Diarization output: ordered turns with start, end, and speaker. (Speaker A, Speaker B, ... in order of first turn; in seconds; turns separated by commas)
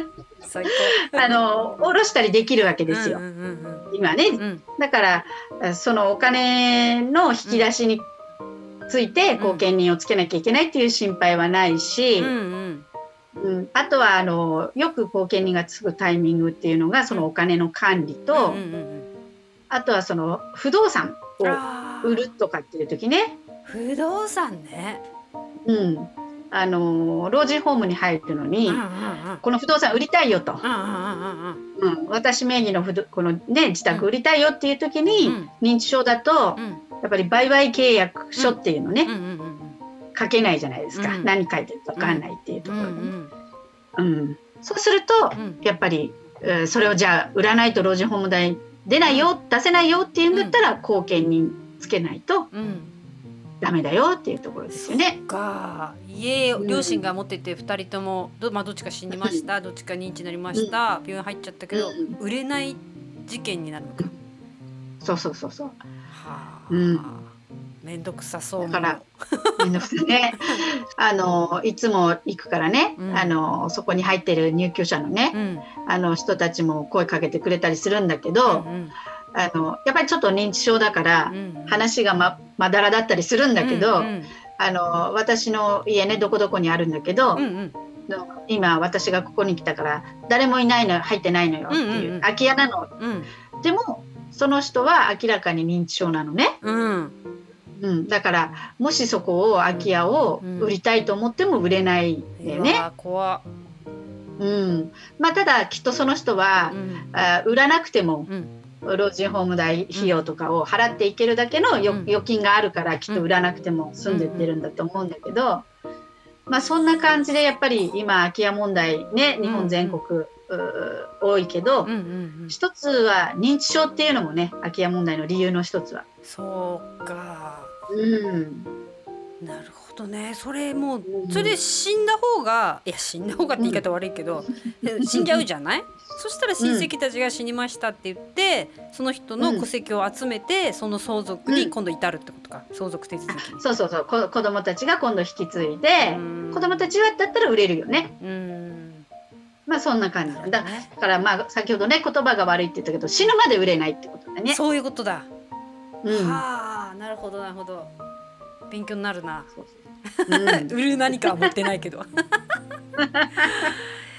Speaker A: 0.4-1.4, Speaker B: 0.7-3.2, Speaker A: 2.9-4.6, Speaker B: 3.9-8.1, Speaker B: 8.9-12.3, Speaker A: 9.4-9.7, Speaker A: 12.2-12.8, Speaker B: 13.4-18.6, Speaker A: 18.3-19.1, Speaker B: 19.7-23.4, Speaker A: 21.4-22.3, Speaker A: 23.6-25.0, Speaker B: 25.6-28.8, Speaker A: 28.7-29.4, Speaker B: 29.4-30.6, Speaker A: 30.6-31.6, Speaker B: 31.8-39.1, Speaker A: 35.2-35.5, Speaker A: 36.5-36.8, Speaker A: 38.4-39.8, Speaker B: 40.1-43.1, Speaker A: 40.9-41.3, Speaker A: 42.0-43.3, Speaker B: 44.0-52.5, Speaker A: 45.3-45.6, Speaker A: 50.3-50.6, Speaker A: 52.5-52.9, Speaker B: 53.6-55.2, Speaker A: 54.7-64.2, Speaker B: 56.6-57.1, Speaker B: 59.1-59.5, Speaker B: 61.7-62.2, Speaker B: 65.0-65.8, Speaker A: 66.1-69.7, Speaker B: 66.7-67.0, Speaker B: 68.6-69.0, Speaker B: 69.6-75.3, Speaker A: 73.0-73.3, Speaker A: 75.3-75.7, Speaker B: 75.8-78.7, Speaker A: 78.5-78.9, Speaker B: 79.3-87.4, Speaker A: 81.3-81.8, Speaker A: 83.6-84.3, Speaker A: 87.3-87.8, Speaker B: 88.1-92.9, Speaker A: 91.7-92.3, Speaker A: 93.0-93.3, Speaker B: 93.6-96.6, Speaker A: 96.6-97.1, Speaker B: 97.8-102.8, Speaker A: 100.4-100.8, Speaker A: 102.4-103.5, Speaker B: 104.4-108.3, Speaker A: 106.7-107.1, Speaker A: 108.3-108.5, Speaker B: 108.8-115.6, Speaker A: 109.9-110.2, Speaker A: 111.8-112.1, Speaker A: 114.0-114.5, Speaker B: 116.5-121.9, Speaker A: 119.4-120.0, Speaker A: 121.8-122.6, Speaker B: 122.5-126.1, Speaker A: 126.2-127.7, Speaker B: 127.9-128.7, Speaker A: 129.4-143.6, Speaker B: 131.0-131.6, Speaker B: 133.6-133.8, Speaker B: 134.5-135.4, Speaker B: 136.6-136.9, Speaker B: 139.4-139.7, Speaker B: 141.5-141.7, Speaker B: 143.3-148.1, Speaker A: 146.0-146.9, Speaker A: 148.2-149.1, Speaker B: 149.7-154.6, Speaker A: 150.2-150.9, Speaker A: 154.5-155.3, Speaker B: 156.0-156.4, Speaker A: 156.1-157.9, Speaker A: 158.7-159.5, Speaker A: 160.2-162.1, Speaker B: 160.3-160.7, Speaker B: 163.0-163.7, Speaker A: 163.4-163.7